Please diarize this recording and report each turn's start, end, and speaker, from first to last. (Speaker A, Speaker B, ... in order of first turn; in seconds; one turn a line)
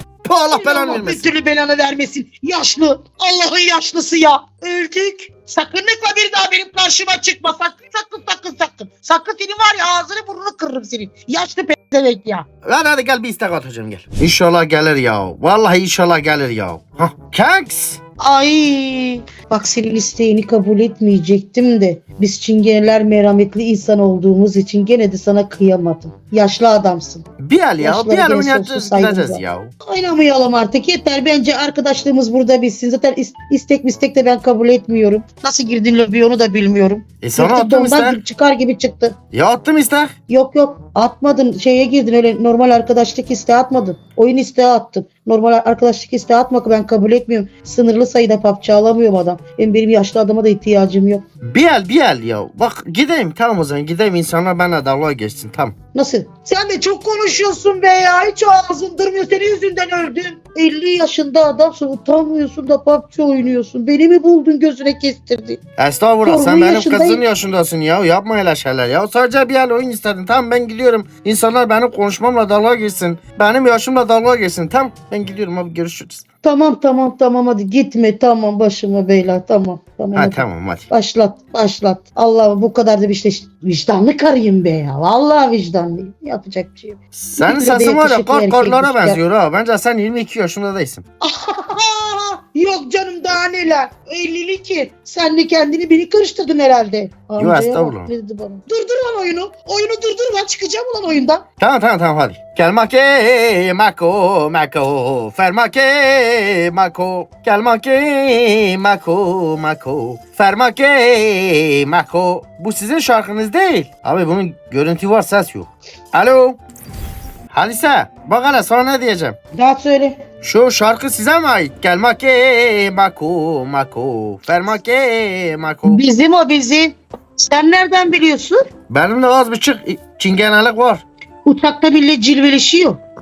Speaker A: 0.2-1.3
Speaker B: 0.5-12.5
Speaker A: 12.6-18.0
Speaker B: 18.2-27.2
Speaker A: 27.4-29.7
Speaker B: 27.8-39.2
Speaker A: 37.2-38.2
Speaker A: 39.3-40.1
Speaker B: 40.3-51.2
Speaker A: 51.4-55.7
Speaker B: 55.9-65.6
Speaker A: 65.8-76.2
Speaker B: 66.2-67.2
Speaker B: 76.4-89.2
Speaker A: 80.1-80.8
Speaker A: 87.1-91.0
Speaker B: 91.2-101.4
Speaker A: 97.4-98.1
Speaker A: 101.6-116.6
Speaker A: 117.5-119.4
Speaker B: 119.5-120.2
Speaker A: 120.4-126.0
Speaker B: 125.8-128.6
Speaker A: 128.9-131.0
Speaker B: 131.4-133.0